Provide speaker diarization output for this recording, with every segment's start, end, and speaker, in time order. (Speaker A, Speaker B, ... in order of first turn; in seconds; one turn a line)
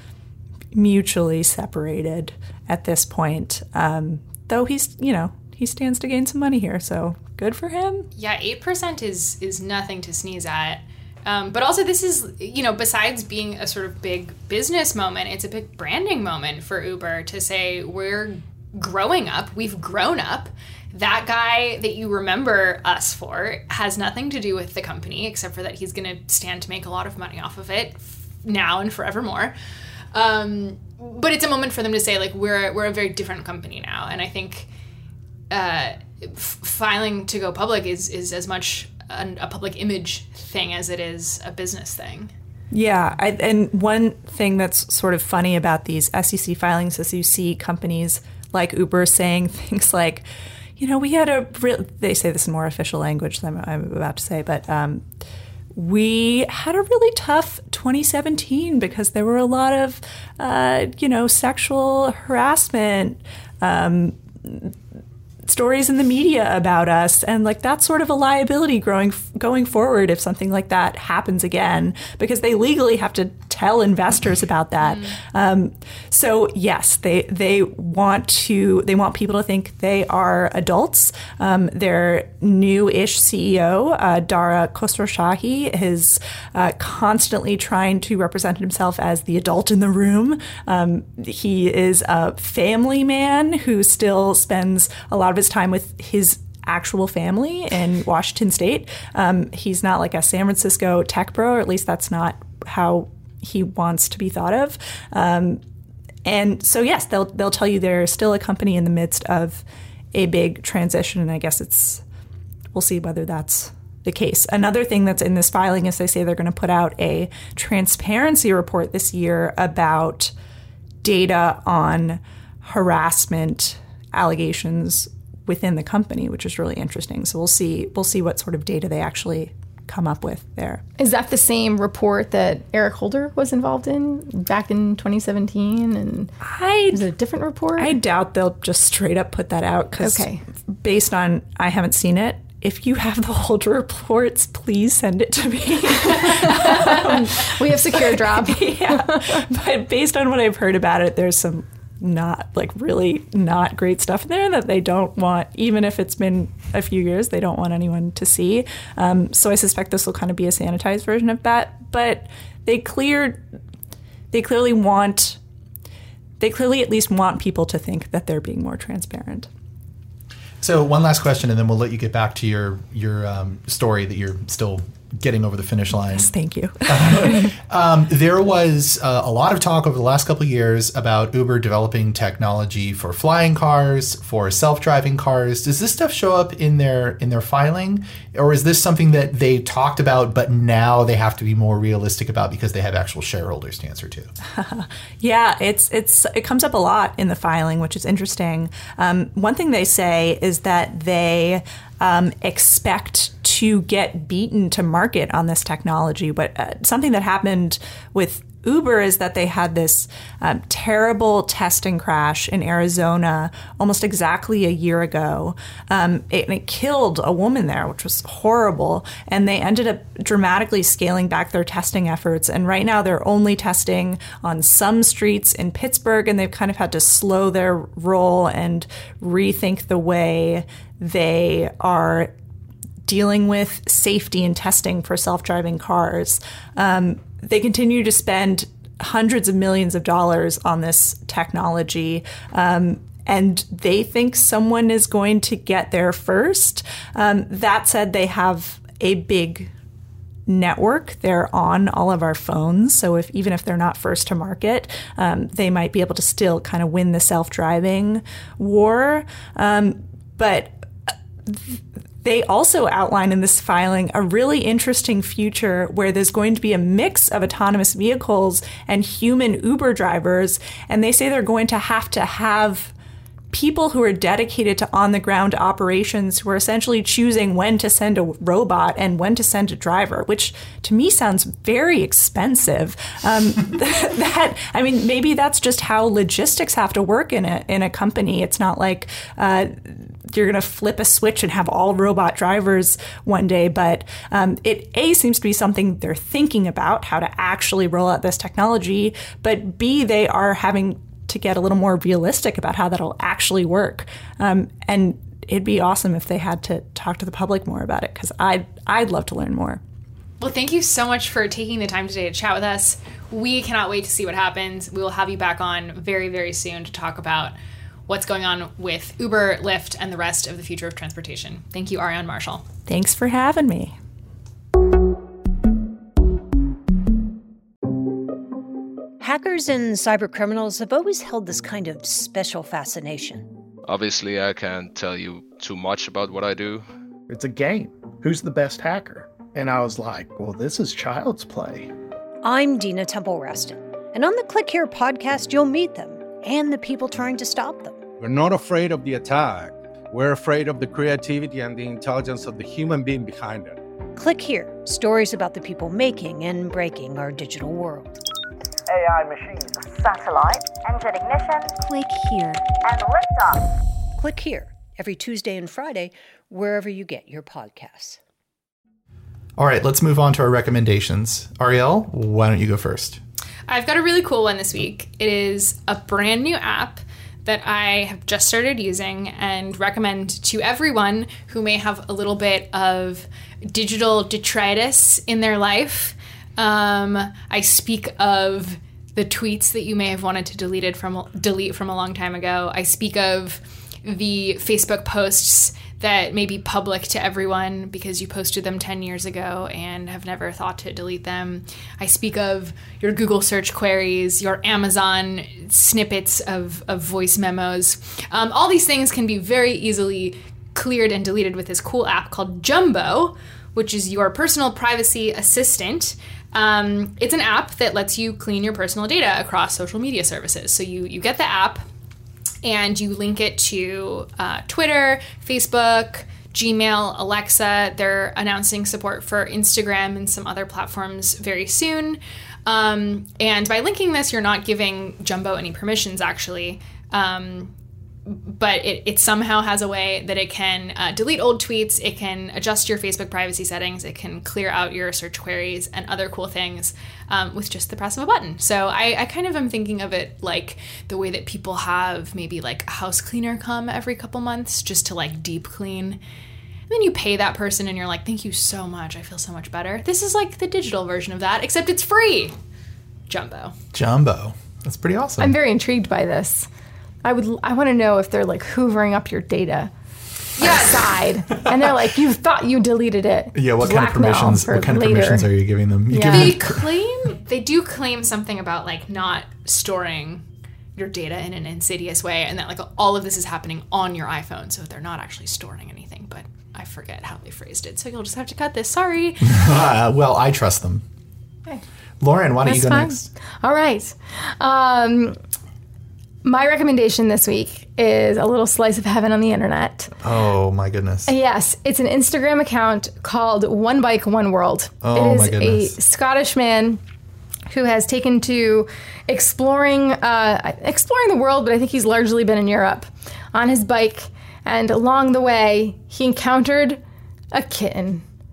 Speaker A: 0.7-8.1
Speaker B: 8.2-29.5
Speaker B: 30.1-34.7
Speaker B: 35.5-42.3
Speaker A: 42.7-50.2
Speaker A: 50.8-55.0
Speaker A: 55.7-64.7
Speaker A: 65.5-105.6
Speaker B: 74.8-75.1
Speaker A: 106.2-112.0
Speaker A: 112.7-120.3
Speaker A: 121.0-130.8
Speaker C: 131.0-136.3
Speaker A: 136.4-137.1
Speaker C: 136.9-138.0
Speaker A: 137.8-140.3
Speaker C: 140.0-140.4
Speaker A: 140.8-163.4
Speaker C: 146.5-149.4
Speaker A: 164.3-165.4
Speaker A: 166.4-169.5
Speaker D: 170.6-176.3
Speaker A: 176.1-177.5
Speaker D: 176.9-194.3
Speaker A: 194.6-232.3
Speaker A: 233.0-249.7
Speaker A: 250.5-260.8
Speaker A: 261.5-272.9
Speaker A: 273.5-309.8
Speaker B: 310.4-317.5
Speaker B: 318.1-322.6
Speaker A: 322.9-323.9
Speaker E: 329.2-333.5
Speaker F: 333.9-336.9
Speaker G: 337.3-341.9
Speaker E: 342.4-348.1
Speaker H: 348.2-353.8
Speaker E: 354.1-358.2
Speaker I: 358.9-361.7
Speaker E: 361.8-362.6
Speaker I: 362.7-363.7
Speaker E: 364.2-368.2
Speaker D: 369.6-373.2
Speaker B: 373.7-421.8
Speaker B: 422.6-437.7
Speaker B: 438.3-456.2
Speaker B: 456.9-462.5
Speaker B: 463.3-463.7
Speaker D: 463.9-465.5
Speaker C: 465.4-466.7
Speaker C: 467.2-469.9
Speaker C: 470.6-475.5
Speaker D: 473.5-476.8
Speaker C: 476.1-476.6
Speaker B: 476.2-480.4
Speaker B: 480.9-489.6
Speaker D: 489.4-491.0
Speaker D: 492.2-493.3
Speaker C: 492.6-495.4
Speaker C: 496.4-500.1
Speaker D: 500.2-501.3
Speaker C: 501.3-507.0
Speaker D: 505.0-505.9
Speaker C: 507.7-517.0
Speaker C: 517.5-518.2